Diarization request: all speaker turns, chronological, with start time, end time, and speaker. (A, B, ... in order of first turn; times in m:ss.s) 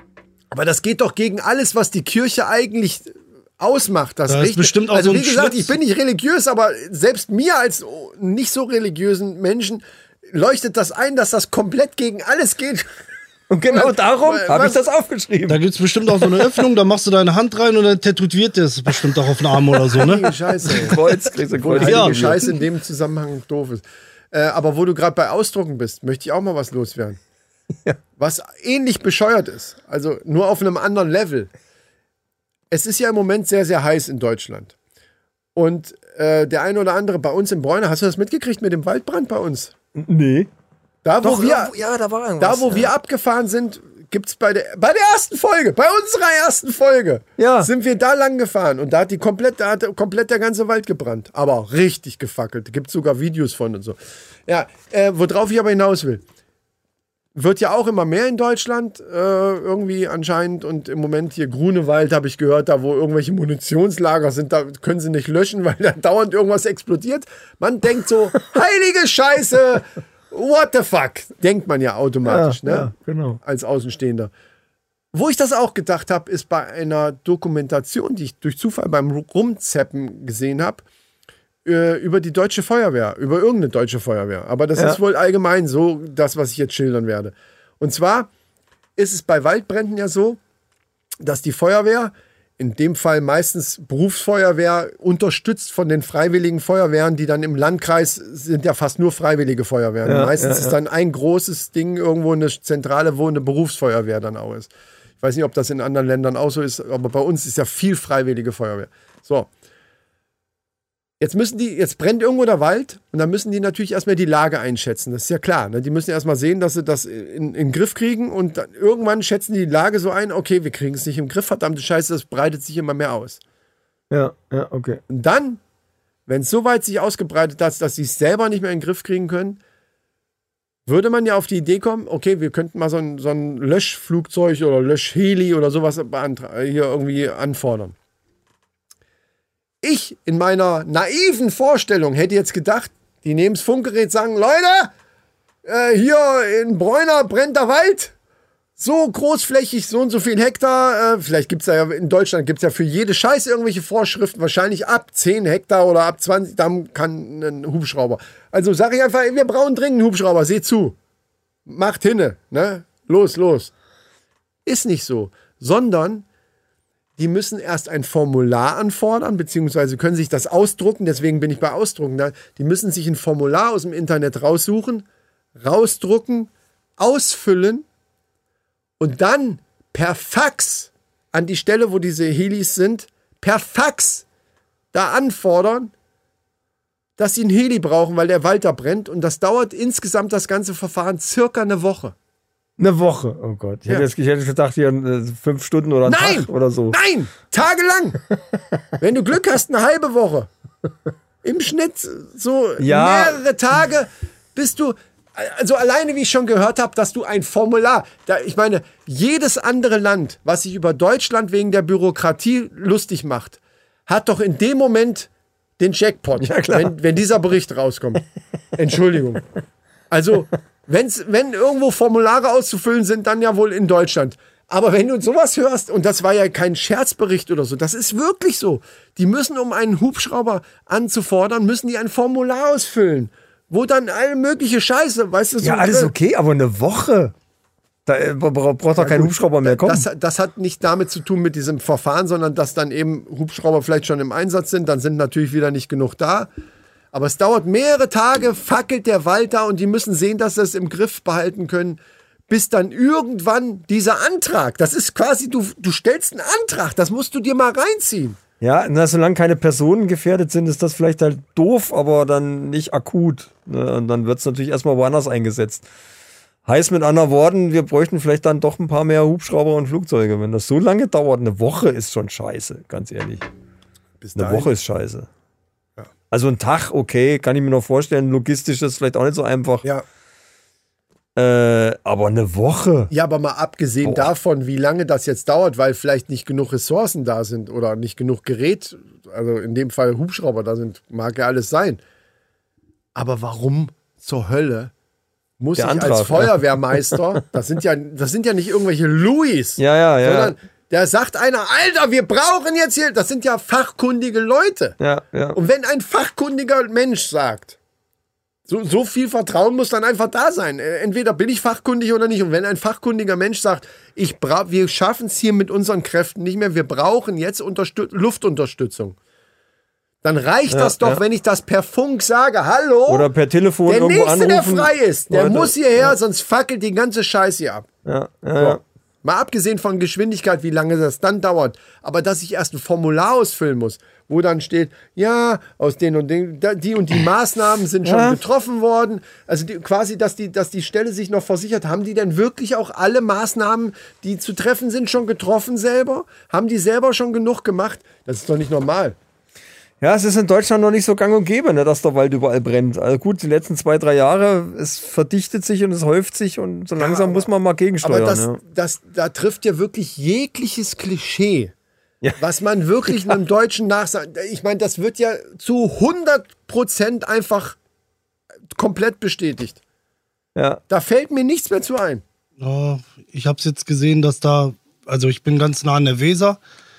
0:00.5-0:12.9 A
0:04.3-0:05.7 B
0:13.5-0:15.6 C
0:13.7-0:14.8 A
0:15.5-0:20.3 B
0:16.2-0:16.5 C
0:19.9-0:21.0 A
0:20.6-0:22.5 C
0:21.6-0:27.2 A
0:21.8-0:22.4 B
0:28.2-0:31.5 A
0:32.7-0:34.8 A
0:35.5-0:39.7 A
0:40.0-0:40.5 C
0:41.0-0:41.7 A
0:41.2-0:42.9 C
0:42.4-0:56.2 A
0:47.4-0:47.7 C
0:57.4-1:14.3 A
1:12.2-1:13.4 C
1:15.1-1:20.8 A
1:21.6-1:28.3 A
1:29.0-1:30.4 A
1:31.2-1:49.5 A
1:40.0-1:40.8 C
1:51.2-2:03.4 A
2:04.1-2:05.0 C
2:05.1-2:05.6 A
2:06.3-2:09.6 A
2:10.9-2:18.0 A
2:19.8-2:24.9 A
2:25.6-2:28.1 A
2:28.8-2:41.0 A
2:41.6-2:43.7 A
2:44.6-2:46.2 A
2:47.2-2:55.0 A
2:55.6-2:57.8 A
2:59.0-3:04.2 A
3:04.9-3:05.9 A
3:07.2-3:12.2 A
3:12.8-3:17.0 C
3:16.0-3:18.2 A
3:19.0-3:20.5 A
3:21.4-3:38.2 A
3:22.8-3:23.4 C
3:36.4-3:36.9 C
3:38.8-3:39.4 A
3:40.1-3:56.1 A
3:55.6-3:57.3 C
3:58.0-4:00.0 C
3:59.0-4:06.5 A
4:07.1-4:18.4 A
4:18.6-4:25.8 C
4:26.7-4:33.5 C
4:34.2-4:34.7 A
4:34.4-4:35.3 C
4:36.3-4:39.8 C
4:41.4-4:43.1 C
4:43.1-4:52.0 A
4:44.0-4:44.3 C
4:53.2-4:54.9 A
4:55.6-5:05.0 A
4:55.8-4:57.2 C
4:59.8-5:00.5 C
5:05.0-5:05.6 C
5:05.5-5:07.8 A
5:08.7-5:19.2 A
5:20.2-5:23.3 A
5:20.7-5:21.2 C
5:23.1-5:26.2 C
5:23.9-5:27.9 A
5:28.0-5:28.8 C
5:28.6-5:49.2 A
5:38.0-5:38.4 C
5:50.0-5:58.6 C
5:57.0-5:57.5 A
5:58.0-6:01.7 A
6:02.4-6:07.8 A
6:03.1-6:03.4 C
6:08.7-6:09.8 A
6:10.5-6:10.8 C
6:10.9-6:12.2 A
6:12.6-6:16.6 B